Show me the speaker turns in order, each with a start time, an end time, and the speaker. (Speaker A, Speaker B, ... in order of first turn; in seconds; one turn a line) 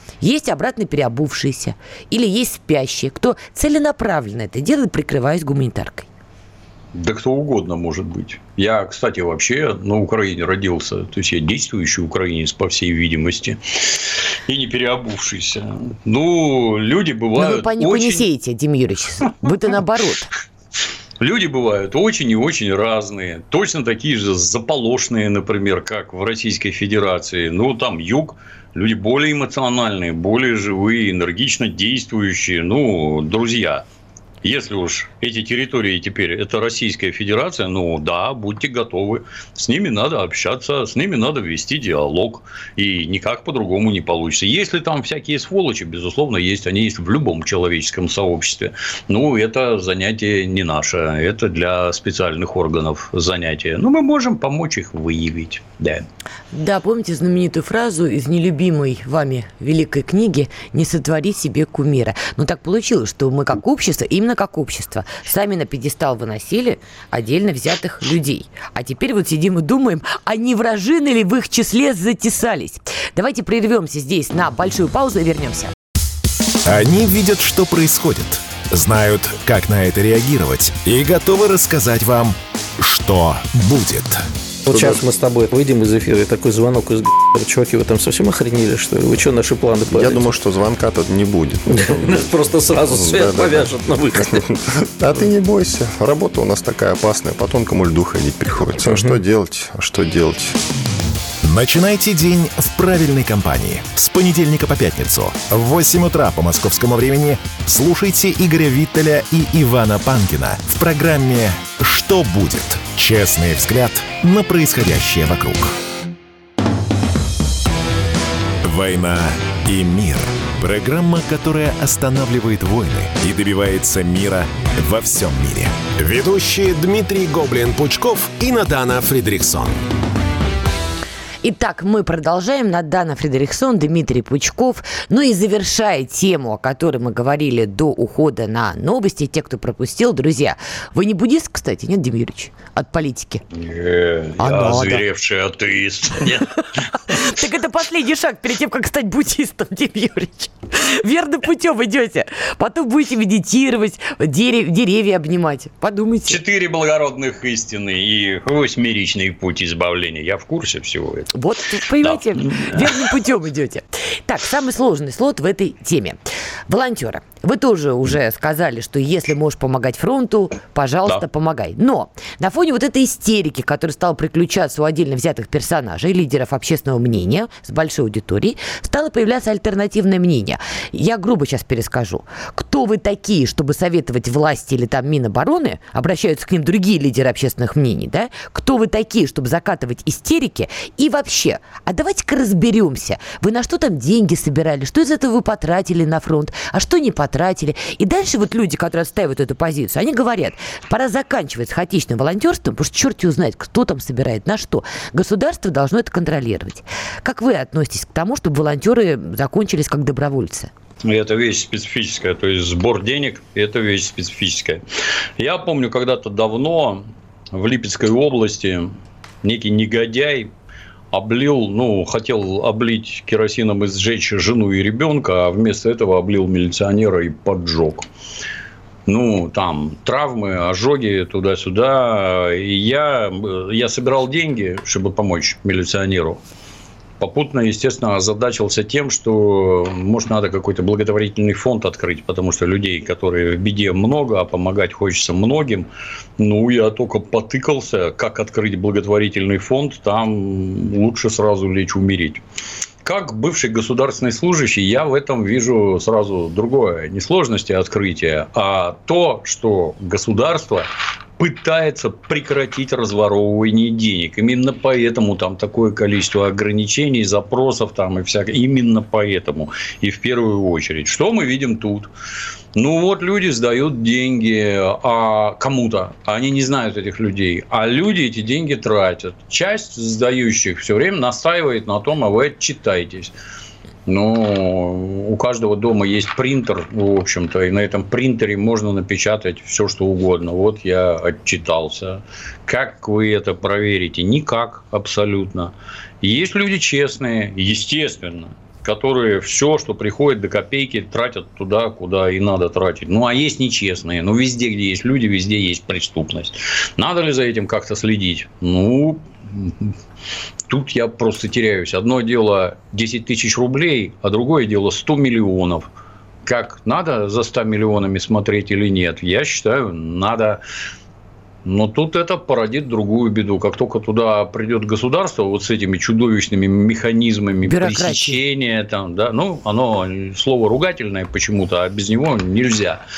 Speaker A: 0.2-6.1
Speaker B: 6.9-18.2
Speaker A: 17.4-20.3
Speaker B: 21.2-33.8
Speaker B: 34.4-56.0
Speaker A: 56.5-75.7
Speaker C: 76.6-84.2
Speaker D: 84.7-90.3
Speaker E: 84.7-85.0
Speaker E: 89.9-92.3
Speaker D: 91.7-94.5
Speaker E: 92.9-93.7
Speaker E: 94.2-100.5
Speaker C: 101.4-115.7
Speaker C: 118.6-129.8
Speaker A: 131.4-143.4
Speaker B: 143.5-147.2
Speaker A: 144.4-145.0
Speaker A: 147.1-156.4
Speaker B: 156.3-161.3
Speaker A: 161.3-166.2
Speaker B: 162.0-163.1
Speaker A: 166.7-210.7
Speaker B: 211.0-214.8
Speaker B: 215.4-220.5
Speaker B: 221.1-228.1
Speaker B: 229.1-236.4
Speaker B: 237.2-245.9
Speaker B: 246.4-252.4
Speaker B: 253.0-272.1
Speaker B: 272.7-283.3
Speaker B: 284.1-309.9
Speaker B: 310.7-315.9
Speaker B: 316.4-320.6
Speaker B: 321.6-333.0
Speaker A: 327.6-328.4